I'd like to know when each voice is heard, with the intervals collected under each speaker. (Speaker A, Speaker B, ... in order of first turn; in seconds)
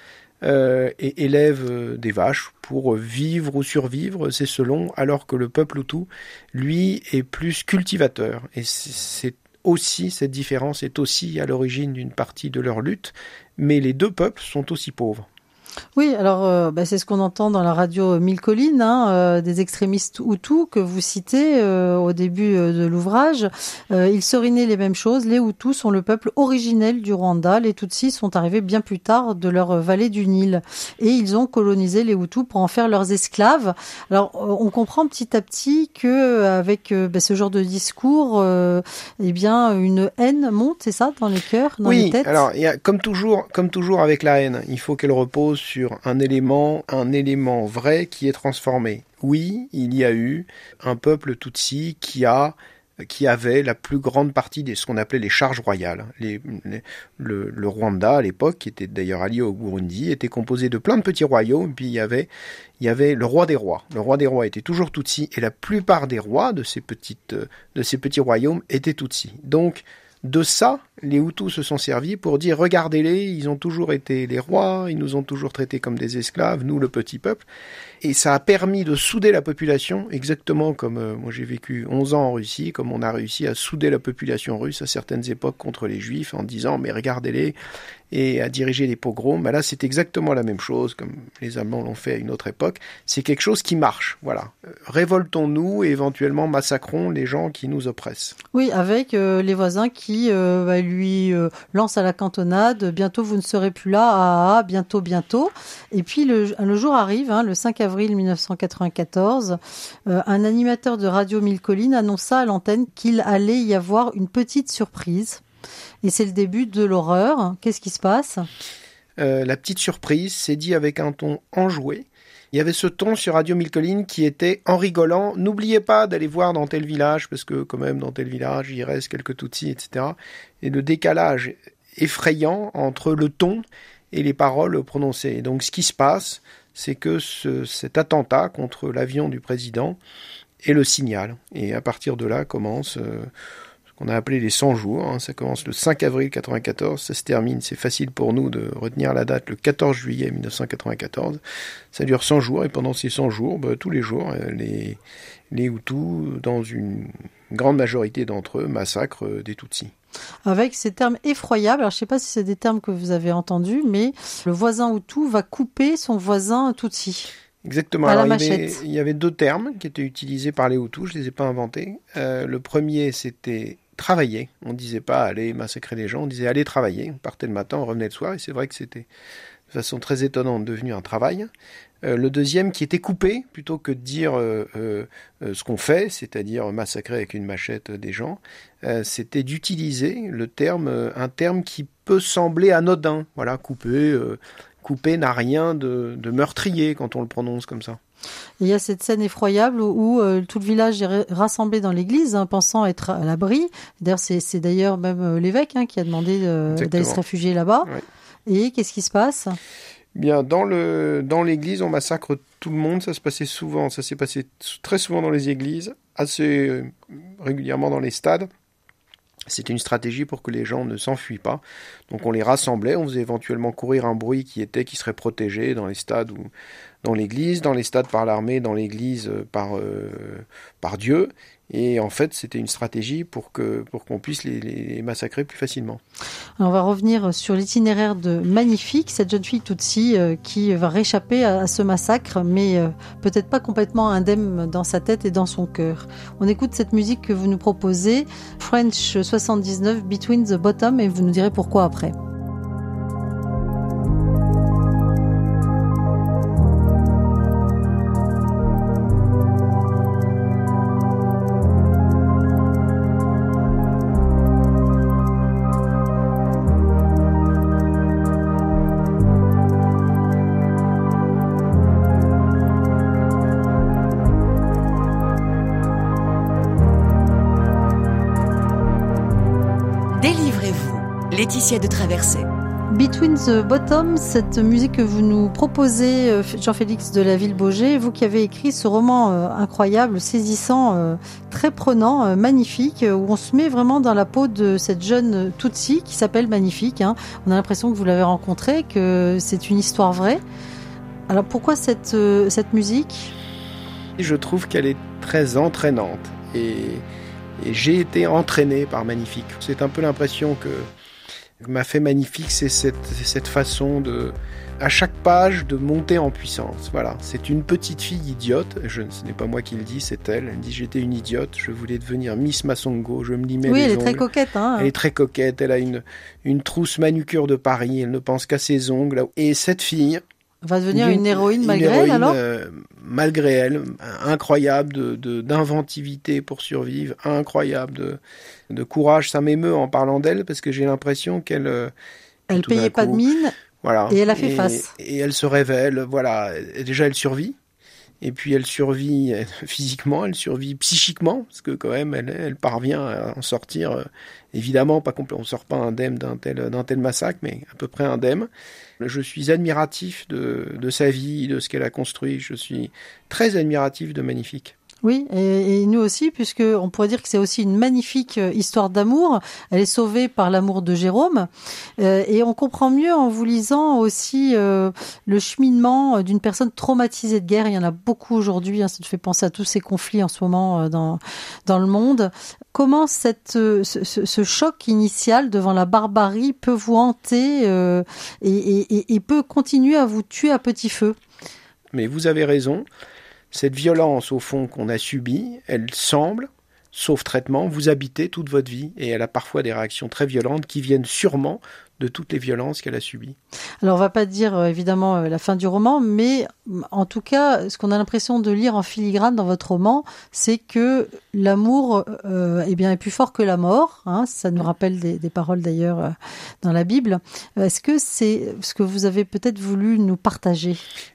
Speaker A: 0.4-15.2, 41.8-77.4, 78.0-87.5, 88.1-98.3, 119.2-140.0, 140.6-143.3, 144.0-151.4, 151.9-155.0, 155.5-159.9, 167.6-179.1, 179.7-181.5, 182.0-198.0, 206.7-207.2, 210.2-218.5, 219.5-226.5, 227.0-236.0, 304.2-307.0, 307.6-310.9, 311.6-324.2, 324.8-330.2, 330.9-338.2, 338.7-341.9, 342.5-343.2, 343.8-347.5, 348.2-358.5, 359.0-364.7, 391.9-392.9, 393.5-403.4
Speaker B: 15.9-42.4, 98.5-109.6, 110.1-115.4, 116.0-118.5, 160.4-167.3, 168.0-168.8, 198.6-207.9, 208.5-209.6, 236.6-252.1, 282.9-300.4, 301.3-303.3, 323.6-324.9, 330.6-332.4, 342.5-343.5, 344.1-344.9, 365.0-391.1, 403.8-420.8
Speaker C: 280.1-282.5